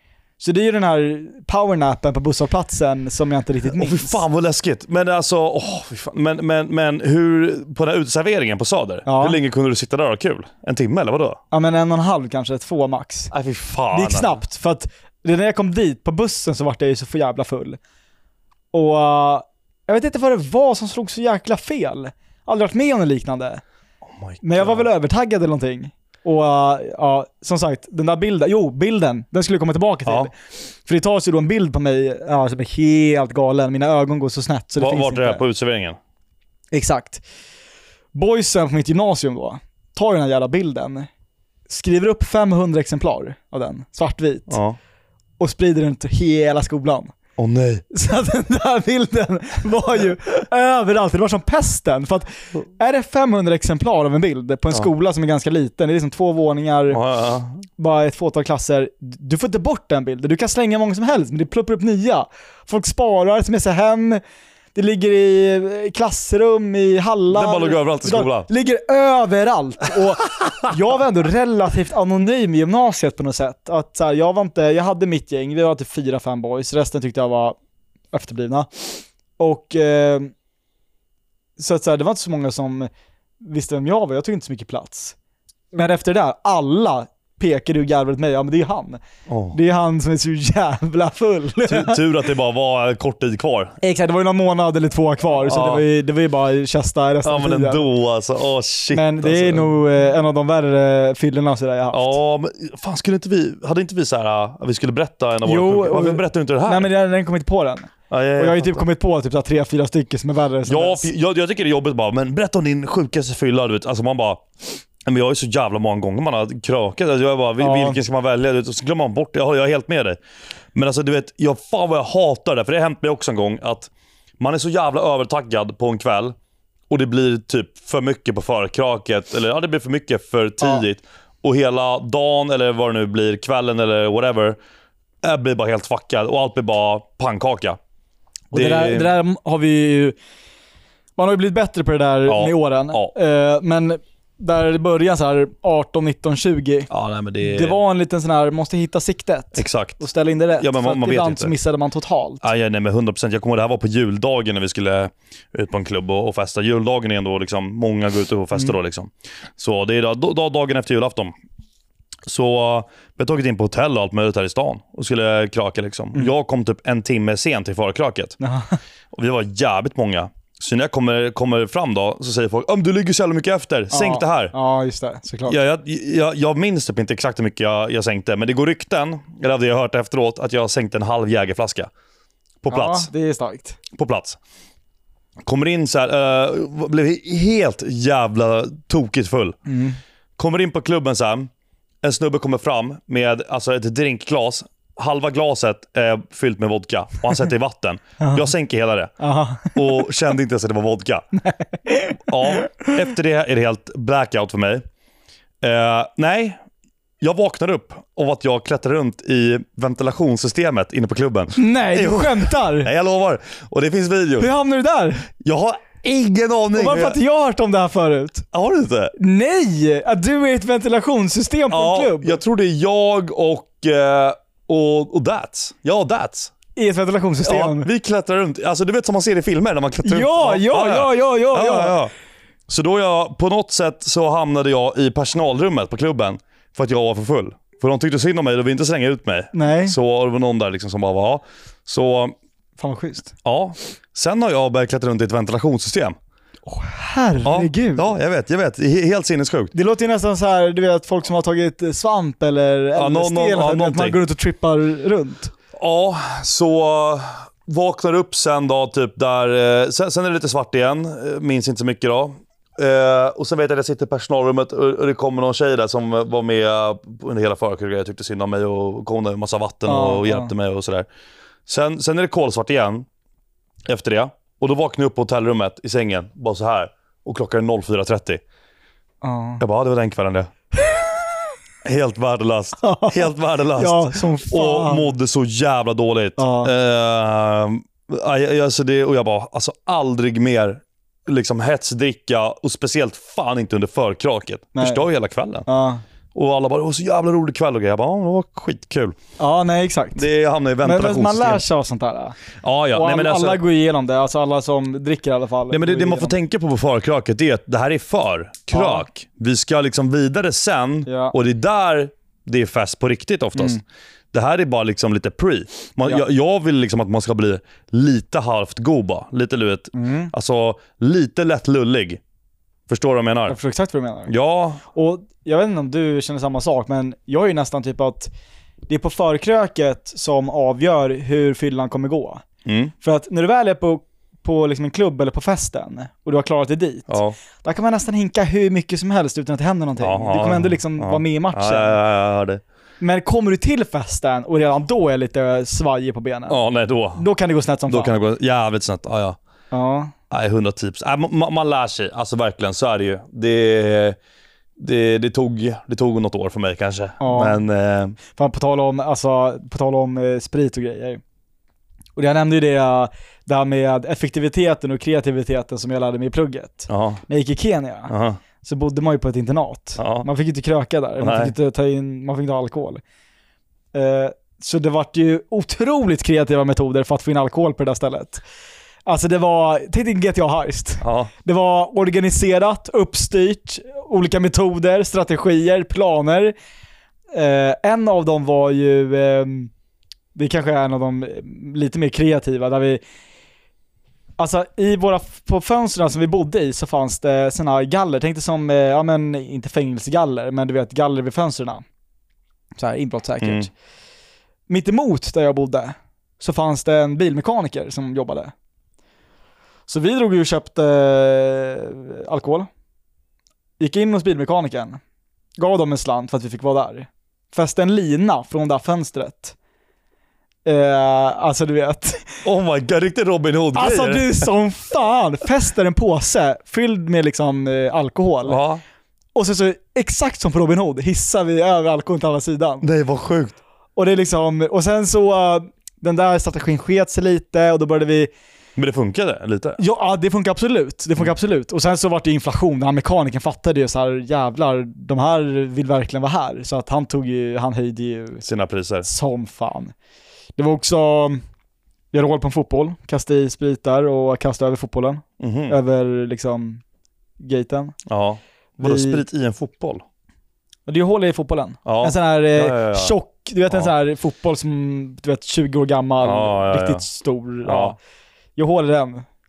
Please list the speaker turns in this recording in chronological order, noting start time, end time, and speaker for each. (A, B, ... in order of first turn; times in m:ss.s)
0:00.4-0:04.2 A
0:03.7-0:11.4 B
0:09.0-0:09.4 A
0:11.5-0:13.3 A
0:13.3-0:14.4 B
0:13.9-0:17.8 A
0:18.7-0:23.6 A
0:24.2-0:24.9 B
0:24.4-0:35.4 A
0:34.8-0:36.0 B
0:36.7-0:37.2 A
0:38.1-0:41.1 A
0:41.7-0:44.6 A
0:44.5-0:44.8 B
0:45.4-0:47.1 A
0:47.4-0:47.8 B
0:47.9-0:57.0 A
0:56.9-0:57.6 B
0:57.8-1:04.2 A
1:04.7-1:17.6 A
1:07.3-1:08.5 B
1:18.1-1:20.3 A
1:21.6-1:25.1 A
1:25.7-1:29.0 A
1:29.3-1:29.6 B
1:29.5-1:32.0 A
1:31.6-1:33.8 B
1:33.8-1:37.8 A
1:35.4-1:35.8 B
1:37.2-1:39.7 B
1:38.9-1:42.2 A
1:41.9-1:46.9 B
1:45.4-1:51.1 A
1:48.1-1:48.8 B
1:50.7-1:54.4 B
1:55.0-2:00.2 B
1:57.6-1:58.0 A
2:00.7-2:06.3 B
2:06.9-2:14.6 B
2:15.2-2:17.8 B
2:18.5-2:19.1 B
2:18.5-2:20.2 A
2:21.2-2:26.9 A
2:22.2-2:23.1 B
2:26.9-2:27.8 B
2:27.4-2:32.5 A
2:29.5-2:30.0 B
2:30.6-2:31.5 B
2:32.4-2:41.3 B
2:42.3-2:48.4 B
2:48.4-2:48.8 A
2:49.1-2:54.5 B
2:53.9-2:55.6 A
2:55.5-3:01.9 B
3:02.6-3:03.1 B
3:02.7-3:03.8 A
3:03.9-3:04.4 B
3:05.4-3:09.6 B
3:09.6-3:10.0 A
3:10.4-3:11.5 B
3:12.0-3:19.1 B
3:18.2-3:18.4 A
3:19.2-3:20.1 A
3:19.7-3:21.3 B
3:21.3-3:22.9 A
3:22.3-3:24.8 B
3:25.6-3:26.6 B
3:27.2-3:34.5 B
3:31.6-3:32.9 A
3:34.4-3:35.3 A
3:35.4-3:37.2 B
3:36.7-3:38.5 A
3:38.5-3:39.1 B
3:39.2-3:42.4 A
3:41.7-3:46.5 B
3:46.8-3:47.9 A
3:47.4-3:52.1 B
3:50.0-3:52.0 A
3:52.7-4:02.3 B
3:59.5-4:00.0 A
4:02.8-4:03.3 A
4:03.4-4:06.2 B
4:06.6-4:08.1 A
4:07.4-4:09.7 B
4:09.7-4:15.5 A
4:13.0-4:14.2 B
4:15.8-4:31.1 B
4:29.8-4:30.5 A
4:31.7-4:33.1 B
4:33.8-4:38.4 B
4:39.2-4:39.6 A
4:39.6-4:40.5 B
4:41.8-4:55.6 B
4:42.8-4:45.1 A
4:46.4-4:46.7 A
4:54.8-4:55.0 A
4:55.7-4:56.0 A
4:56.3-4:59.2 B
4:59.4-5:00.2 A
5:00.2-5:01.6 B
5:00.8-5:02.4 A
5:02.6-5:03.6 B
5:02.9-5:06.3 A
5:05.7-5:13.8 B
5:08.7-5:09.0 A
5:11.1-5:11.3 A
5:14.3-5:22.2 B
5:19.9-5:20.3 A
5:22.9-5:23.6 B
5:23.5-5:24.3 A
5:24.3-5:24.8 B
5:24.8-5:28.3 A
5:28.9-5:32.4 A
5:32.6-5:32.9 B
5:33.0-5:42.0 A
5:37.1-5:37.4 B
5:40.0-5:42.6 B
5:43.0-5:46.6 A
5:46.5-5:47.2 B
5:47.2-5:48.1 A
5:47.9-5:49.4 B
5:49.7-5:50.1 A
5:50.3-5:54.2 B
5:54.8-5:58.2 B
5:57.2-5:57.6 A
5:58.3-6:01.2 A
6:02.2-6:08.1 A
6:06.9-6:07.2 B
6:08.1-6:08.4 B
6:08.6-6:13.0 A
6:10.0-6:10.3 B
6:11.2-6:11.5 B
6:13.9-6:18.4 A
6:19.0-6:26.5 A
6:21.0-6:21.3 B
6:27.3-6:29.7 A
6:30.3-6:33.0 A
6:34.4-6:41.8 A
6:42.8-6:43.7 A
6:43.4-6:43.7 B
6:44.7-6:48.5 A
6:49.9-6:52.7 A
6:53.8-6:55.0 A
6:55.6-6:59.5 A
7:00.6-7:02.4 A
7:02.4-7:04.5 B
7:03.7-7:08.6 A
7:08.4-7:08.8 B
7:09.3-7:12.8 A
7:12.8-7:13.6 B
7:14.0-7:18.3 A
7:18.8-7:19.8 B
7:19.8-7:28.4 A
7:28.4-7:29.1 B
7:29.0-7:29.9 A
7:30.6-7:31.4 A
7:32.1-7:36.8 A
7:35.4-7:35.8 B
7:37.4-7:38.0 A
7:38.1-7:40.0 B
7:38.8-7:39.2 A
7:40.9-7:48.0 A
7:41.8-7:43.1 B
7:46.2-7:47.0 B
7:47.6-7:47.9 B
7:48.6-7:49.2 A